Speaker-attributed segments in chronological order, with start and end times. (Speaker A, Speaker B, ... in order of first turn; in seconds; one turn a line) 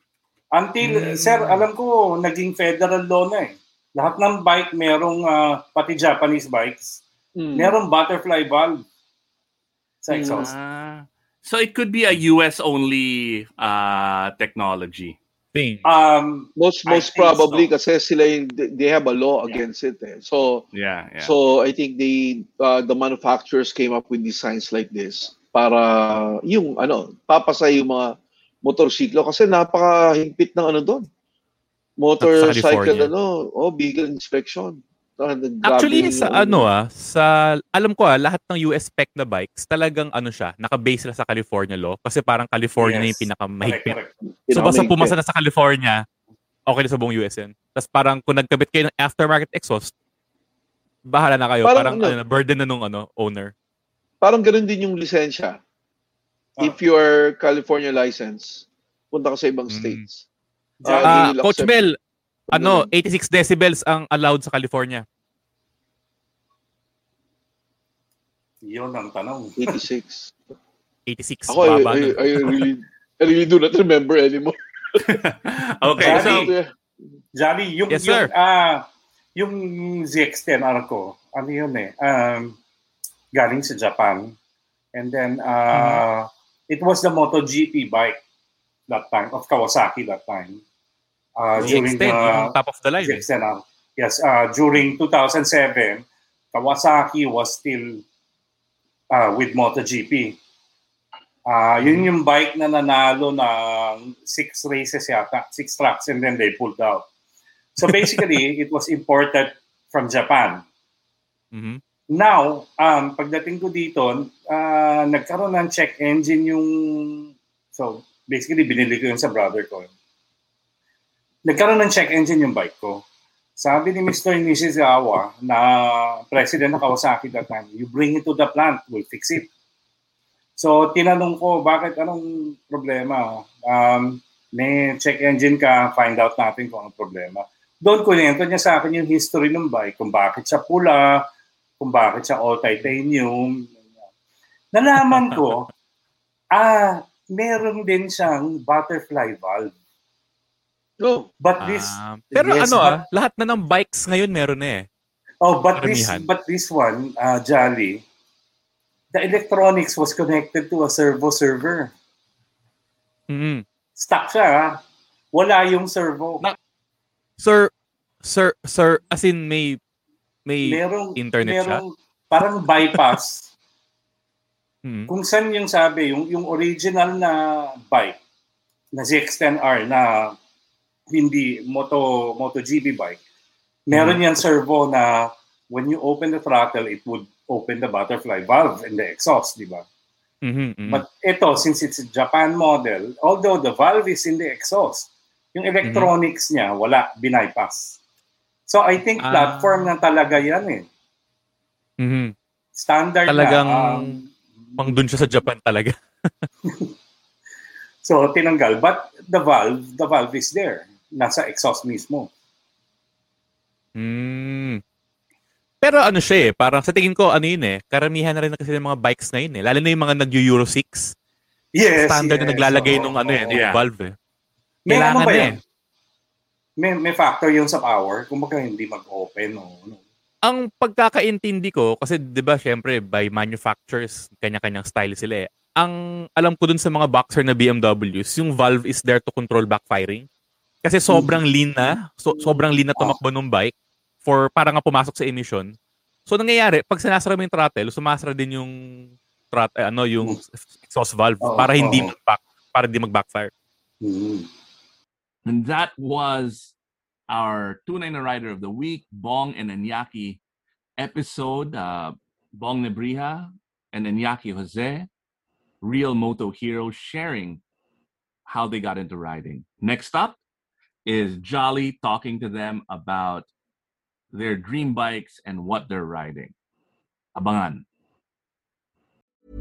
Speaker A: 0.5-7.0
Speaker B: 0.8-1.6
Speaker C: 7.4-7.8
Speaker A: 7.5-8.8
Speaker A: 10.0-10.5
Speaker C: 10.1-10.5
Speaker D: 10.4-15.2
Speaker B: 15.5-15.8
Speaker A: 15.8-17.7
Speaker C: 16.6-20.6
Speaker D: 20.7-21.3
Speaker C: 21.2-28.1
Speaker C: 28.6-31.1
Speaker C: 32.0-36.6
Speaker B: 32.2-33.1
Speaker B: 35.6-44.0
Speaker A: 42.8-44.1
Speaker C: 44.3-45.1
Speaker B: 44.5-46.0
Speaker B: 46.7-49.9
Speaker B: 51.1-53.5
Speaker C: 51.6-52.1
Speaker C: 54.2-55.6
Speaker C: 56.6-60.2
Speaker B: 59.7-60.0
Speaker A: 60.8-61.3
Speaker C: 60.9-61.7
Speaker B: 61.0-61.9
Speaker B: 62.5-65.0
Speaker C: 62.5-62.9
Speaker A: 68.6-69.8
Speaker C: 69.6-70.3
Speaker B: 71.1-72.7
Speaker C: 71.5-75.0
Speaker D: 75.0-76.5
Speaker C: 76.0-76.7
Speaker A: 76.0-76.5
Speaker A: 77.4-78.8
Speaker B: 77.9-78.3
Speaker A: 79.3-82.6
Speaker A: 83.3-84.3
Speaker A: 84.9-88.2
Speaker B: 85.7-86.0
Speaker A: 88.9-90.6
Speaker A: 91.4-98.0
Speaker B: 91.6-93.2
Speaker A: 99.1-100.4
Speaker A: 101.5-107.0
Speaker B: 101.8-102.1
Speaker A: 107.7-110.6
Speaker B: 107.8-108.3
Speaker B: 111.5-111.8
Speaker A: 112.1-119.9
Speaker A: 121.5-123.0
Speaker A: 123.6-129.5
Speaker A: 130.6-141.2
Speaker A: 141.8-143.8
Speaker A: 144.7-145.7
Speaker B: 145.1-145.4
Speaker A: 146.5-149.7
Speaker C: 151.0-151.3
Speaker A: 151.4-153.0
Speaker B: 151.6-154.8
Speaker A: 155.4-158.0
Speaker B: 155.8-156.2
Speaker A: 159.1-161.9
Speaker B: 163.3-163.6
Speaker A: 164.0-164.8
Speaker A: 165.3-166.4
Speaker B: 167.4-167.7
Speaker B: 168.2-169.8
Speaker B: 170.4-171.8
Speaker A: 170.6-173.5
Speaker B: 172.8-173.1
Speaker B: 174.8-175.1
Speaker A: 175.1-178.2
Speaker A: 178.9-180.3
Speaker A: 181.1-183.2
Speaker A: 183.9-189.8
Speaker B: 183.9-184.2
Speaker B: 190.4-191.0
Speaker A: 190.9-198.0
Speaker B: 195.8-196.1
Speaker A: 198.7-200.8
Speaker B: 199.2-199.9
Speaker B: 202.0-202.3
Speaker A: 202.7-204.9
Speaker B: 203.3-204.2
Speaker B: 204.8-205.9
Speaker A: 208.0-212.3
Speaker B: 214.0-214.8
Speaker B: 215.8-221.1
Speaker A: 221.7-223.7
Speaker B: 222.0-224.1
Speaker D: 223.5-223.8
Speaker A: 224.8-225.6
Speaker B: 224.9-225.6
Speaker A: 226.8-230.0
Speaker B: 230.4-240.2
Speaker B: 240.8-243.7
Speaker B: 244.2-245.7
Speaker B: 246.3-248.7
Speaker B: 249.5-253.5
Speaker A: 251.4-252.1
Speaker A: 254.0-254.5
Speaker D: 255.4-256.7
Speaker D: 257.3-260.4
Speaker D: 261.0-265.1
Speaker D: 265.8-267.6
Speaker D: 268.5-270.4
Speaker D: 271.1-273.5
Speaker D: 274.3-276.5
Speaker D: 277.4-277.8